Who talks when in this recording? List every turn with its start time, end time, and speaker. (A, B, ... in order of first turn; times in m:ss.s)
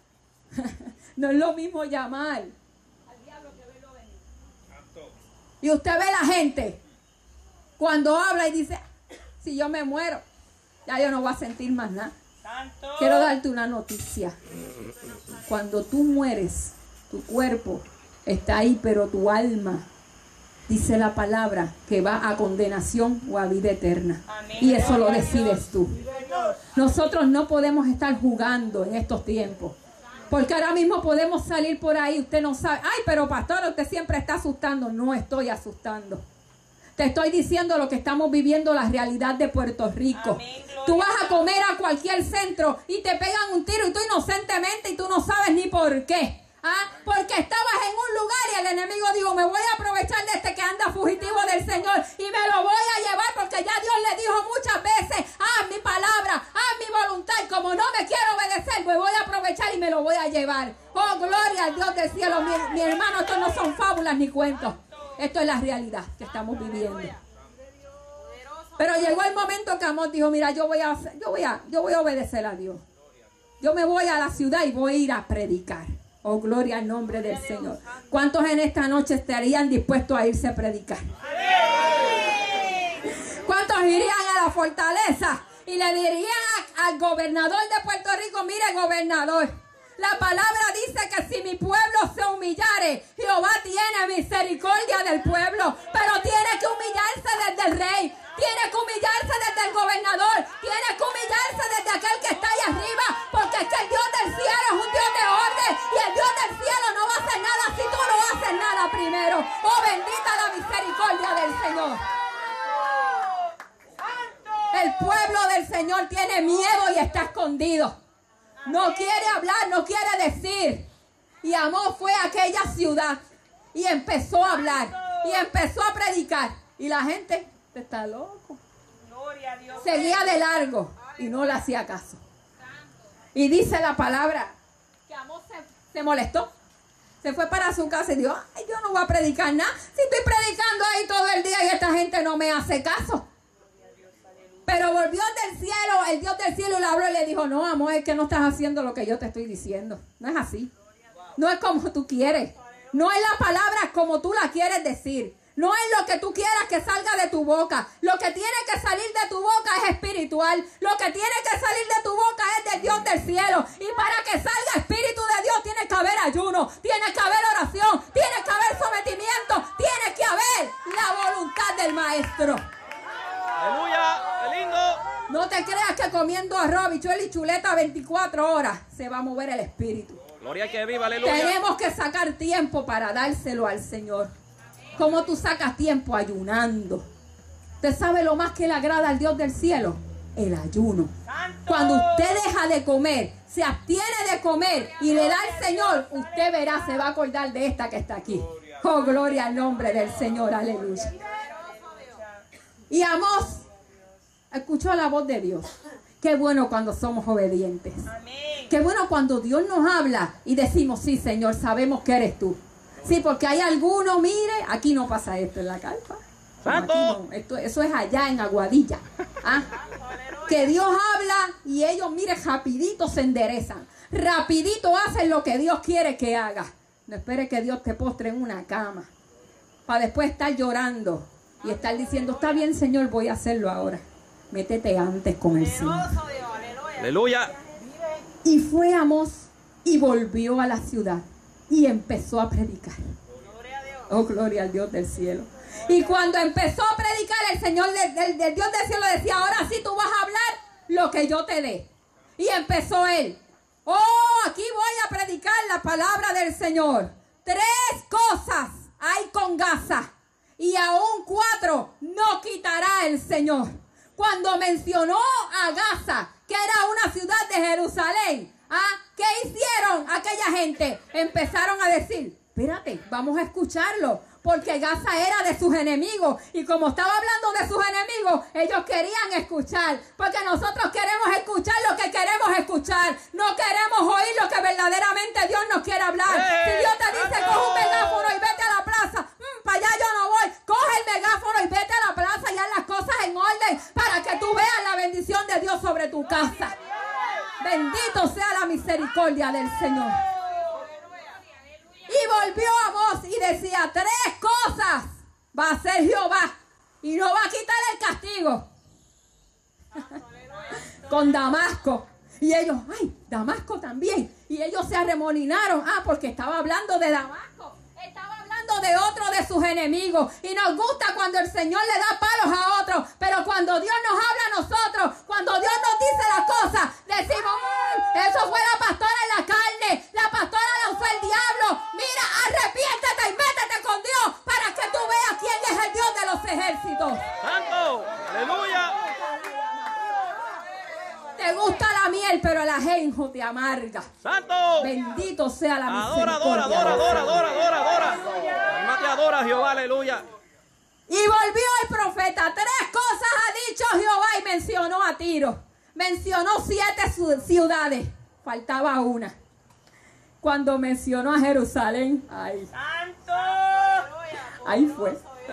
0:00.5-0:02.5 A
0:03.1-0:04.0 A
0:05.6-0:06.8 A
0:07.8-0:08.8 A
0:09.4-0:10.2 A
0:10.8-0:12.1 A
0:12.4-0:13.3 B
0:13.0-0:14.4 A
0:15.5-0:19.9 A
0:20.7-0:26.0 A
0:24.3-0:25.6 B
0:26.7-0:29.8 A
0:30.3-0:36.2 A
0:37.0-1:07.2 A
0:40.1-0:41.4 B
1:08.8-1:12.8 A
1:13.6-1:21.1 A
1:21.3-1:22.7 B
1:23.0-1:52.0 A
1:54.0-1:54.6 B
1:54.7-1:57.9 A
1:58.6-2:00.9 A
2:01.4-2:03.2 A
2:03.7-2:08.6 A
2:09.0-2:10.4 B
2:09.8-2:12.2 A
2:13.3-2:14.6 A
2:15.1-2:16.5 A
2:17.2-2:23.2 A
2:23.8-2:24.6 B
2:24.6-2:30.7 A
2:31.4-2:52.6 A
2:53.6-2:55.0 C
2:55.3-3:00.2 A
3:00.4-3:01.5 C
3:01.2-3:04.3 A
3:05.0-3:07.1 A
3:07.8-3:11.1 A
3:11.3-3:12.3 B
3:11.7-3:21.2 A
3:15.2-3:16.2 B
3:21.2-3:22.2 B
3:22.9-3:23.6 A
3:24.5-3:28.1 A
3:28.1-3:28.7 B
3:28.7-3:39.7 A
3:36.6-3:37.2 C
3:40.4-3:49.1 A
3:49.9-3:56.2 A
3:57.0-3:57.5 C
3:58.4-4:03.1 A
4:04.1-4:11.9 A
4:12.4-4:56.7 A
4:46.3-4:48.1 C
4:57.6-5:00.2 A
5:02.1-5:08.7 A
5:10.7-5:37.3 A
5:37.4-5:38.9 C
5:39.0-5:39.4 A
5:41.4-5:44.1 A
5:44.2-5:44.9 C
5:44.8-5:47.4 A
5:45.9-5:50.2 C
5:51.1-5:59.3 A
6:00.4-6:02.7 A
6:02.7-6:04.2 B
6:04.5-6:05.2 A